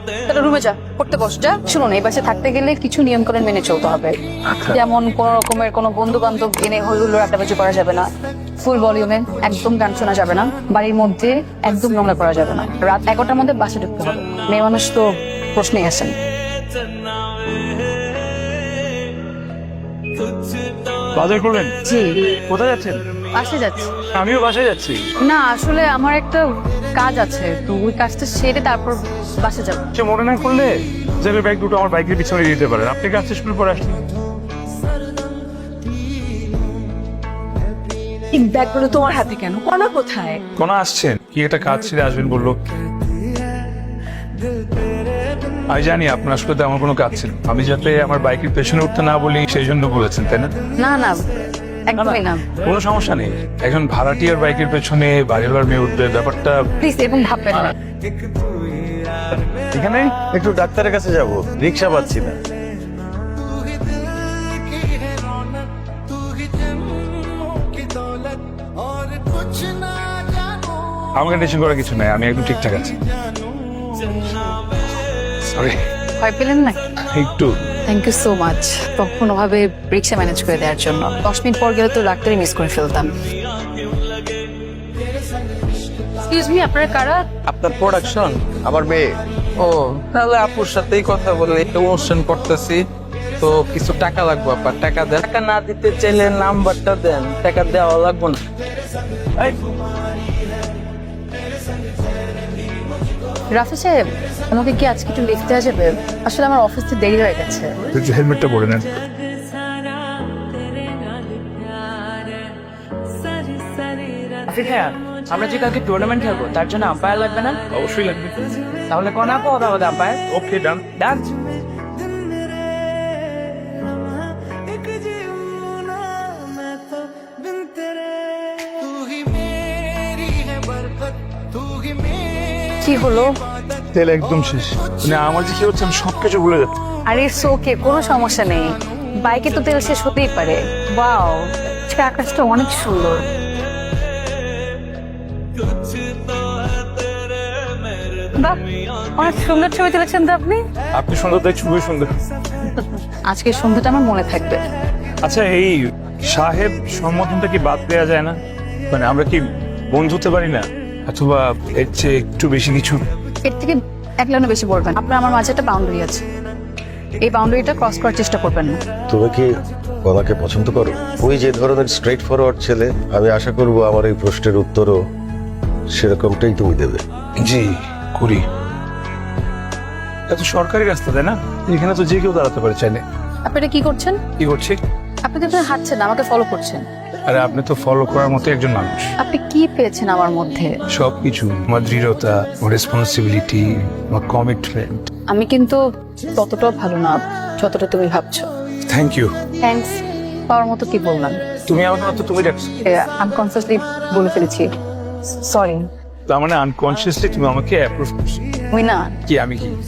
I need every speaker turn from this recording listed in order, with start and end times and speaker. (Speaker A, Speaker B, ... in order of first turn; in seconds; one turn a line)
Speaker A: 0.2-16.1
Speaker B: 4.5-4.8
Speaker B: 21.1-21.7
Speaker A: 21.8-22.3
Speaker B: 22.4-23.0
Speaker A: 23.4-23.9
Speaker B: 24.1-25.0
Speaker A: 25.2-26.4
Speaker A: 27.0-29.9
Speaker B: 29.9-34.0
Speaker A: 38.3-40.4
Speaker B: 40.6-42.5
Speaker B: 45.7-50.5
Speaker A: 50.8-51.2
Speaker A: 51.9-52.5
Speaker B: 52.0-56.6
Speaker A: 56.8-57.7
Speaker B: 59.5-60.1
Speaker C: 60.3-62.4
Speaker B: 71.2-73.0
Speaker B: 75.5-75.8
Speaker A: 76.2-76.8
Speaker B: 77.1-77.5
Speaker A: 77.9-83.2
Speaker A: 86.2-87.2
Speaker D: 87.5-89.0
Speaker C: 88.7-89.0
Speaker D: 89.6-92.8
Speaker D: 93.4-98.4
Speaker A: 103.5-107.8
Speaker B: 107.9-108.9
Speaker E: 114.5-117.6
Speaker B: 117.7-118.3
Speaker E: 118.9-120.2
Speaker B: 120.3-120.9
Speaker E: 120.9-121.3
Speaker A: 132.8-133.3
Speaker B: 133.9-136.8
Speaker A: 137.1-138.7
Speaker A: 139.2-143.2
Speaker A: 148.3-150.6
Speaker B: 150.9-152.1
Speaker A: 152.8-154.6
Speaker B: 155.2-158.4
Speaker B: 158.9-163.0
Speaker A: 163.4-166.2
Speaker A: 167.2-168.8
Speaker C: 169.1-169.5
Speaker C: 170.0-175.0
Speaker C: 175.9-177.0
Speaker B: 177.4-178.4
Speaker B: 180.3-183.0
Speaker A: 183.4-184.2
Speaker B: 184.4-184.8
Speaker A: 185.2-186.8
Speaker B: 187.2-189.1
Speaker A: 189.2-190.7
Speaker B: 190.9-195.1
Speaker A: 195.3-195.8
Speaker A: 196.3-198.5
Speaker B: 198.9-199.3
Speaker A: 199.6-200.0
Speaker A: 200.5-201.4
Speaker B: 201.7-202.7
Speaker A: 202.8-204.7
Speaker A: 205.4-205.9
Speaker B: 206.3-208.3
Speaker A: 208.7-209.2
Speaker B: 209.3-209.8